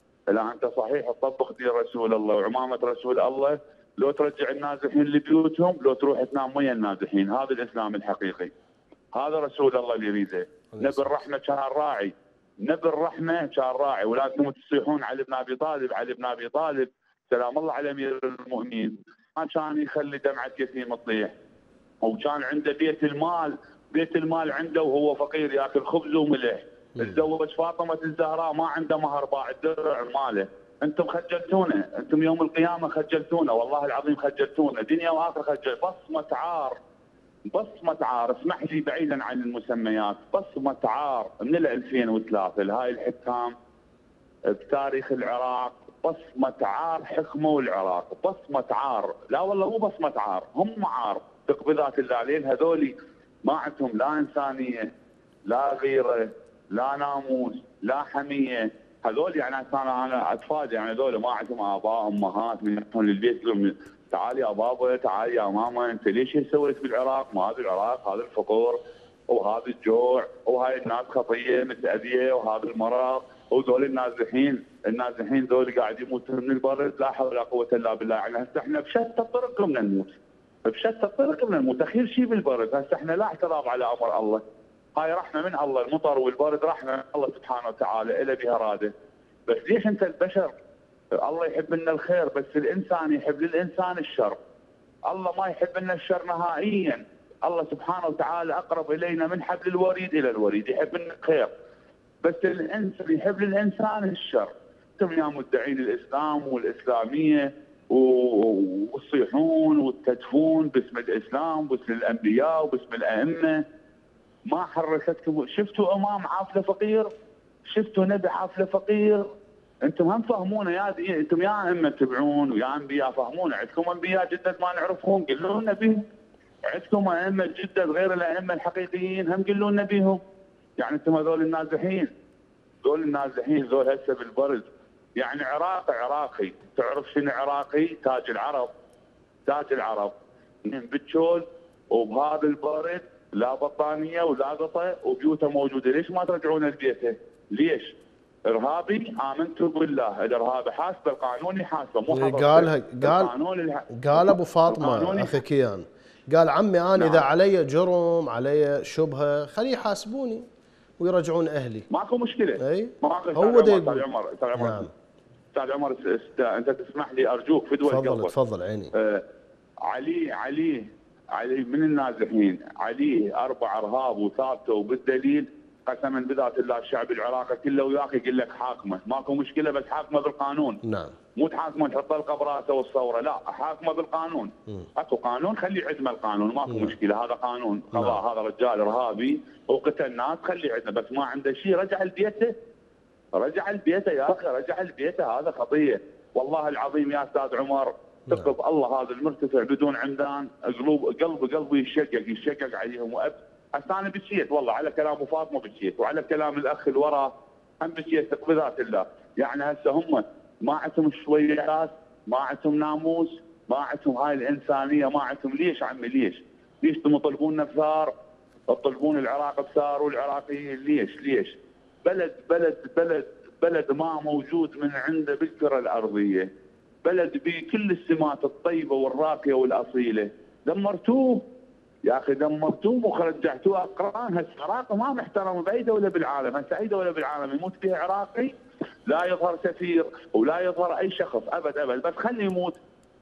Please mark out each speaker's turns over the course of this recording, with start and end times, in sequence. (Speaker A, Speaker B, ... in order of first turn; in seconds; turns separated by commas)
Speaker A: 0.3-8.5, Speaker A: 9.1-21.3, Speaker B: 10.7-11.2, Speaker A: 22.0-36.8, Speaker A: 37.5-43.5, Speaker A: 44.5-54.9, Speaker A: 55.5-84.4, Speaker A: 85.0-88.9, Speaker A: 89.5-90.5, Speaker A: 91.2-94.4, Speaker A: 95.1-101.5, Speaker A: 102.2-113.6, Speaker A: 114.5-117.1, Speaker A: 117.7-119.3, Speaker A: 119.8-126.0, Speaker A: 126.7-130.2, Speaker A: 130.8-132.1, Speaker A: 132.8-138.7, Speaker A: 139.5-147.9, Speaker A: 148.5-155.4, Speaker B: 152.1-153.3, Speaker B: 153.9-160.5, Speaker A: 157.0-157.2, Speaker B: 161.0-161.9, Speaker A: 161.9-164.9, Speaker B: 162.6-164.9, Speaker A: 165.5-168.3, Speaker B: 167.9-168.9, Speaker A: 168.9-169.2, Speaker A: 169.9-180.8, Speaker B: 180.8-181.2, Speaker A: 181.4-192.6, Speaker B: 186.7-187.0, Speaker B: 187.9-188.2, Speaker A: 193.4-218.1, Speaker A: 218.7-226.5, Speaker A: 227.0-231.4, Speaker A: 232.1-238.5, Speaker A: 239.1-242.8